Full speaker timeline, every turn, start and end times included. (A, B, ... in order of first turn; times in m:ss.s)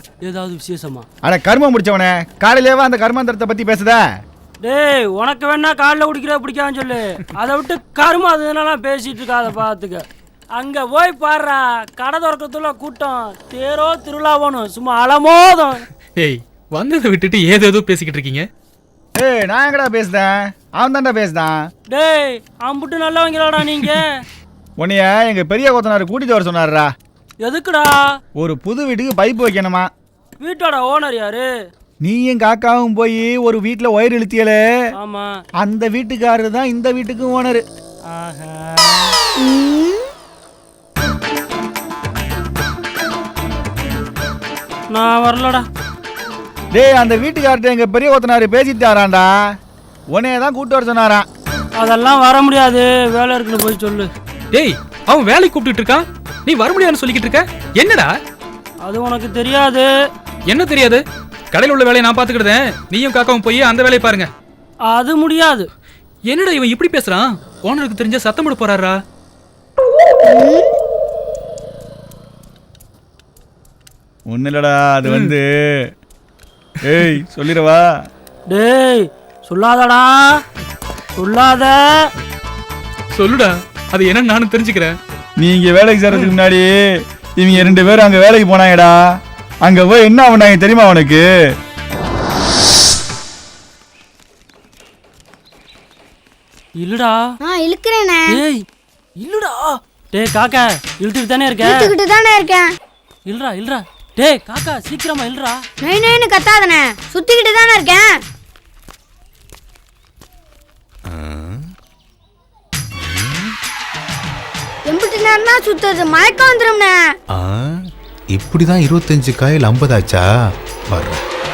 0:00.2-0:01.1 A
0:01.2-0:04.1 B
0:04.6-0:10.0 A
0:10.6-0:15.8 A
0:16.2-0:18.4 C
0:19.2-0:21.6 B
0:21.9-0:24.1 A
0:24.8-0:26.9 B
0:27.4-0:28.0 A
0:28.4-0:29.9 B
0:30.4-0:31.5 A
0:32.0-0:34.6 B
0:35.0-0:35.4 A
0:35.6-0:37.6 B
0:38.1-0:39.2 A
0:39.4-0:40.1 D
0:44.9-0:45.6 A
0:46.7-0:49.3 B
0:50.1-0:51.2 B
0:51.8-0:54.1 A
0:54.5-0:58.1 C
0:58.8-0:59.9 A
1:00.5-1:04.3 C
1:04.9-1:05.7 A
1:06.3-1:09.0 C
1:10.2-1:10.7 D
1:14.3-1:15.8 B
1:15.1-1:15.3 C
1:16.8-1:17.9 B
1:18.5-1:20.4 A
1:21.2-1:22.1 A
1:23.1-1:25.0 C
1:25.4-1:26.8 B
1:27.4-1:29.0 B
1:29.6-1:31.3 B
1:36.8-1:37.2 A
1:37.4-1:38.4 D
1:38.3-1:38.6 A
1:39.2-1:41.9 A
1:41.6-1:42.8 D
1:43.3-1:45.6 A
1:45.8-1:48.2 D
1:51.1-1:51.6 E
1:53.0-1:53.5 E
1:54.9-1:57.2 D
1:57.3-1:57.6 E
1:58.3-2:00.3 E
2:00.9-2:01.2 E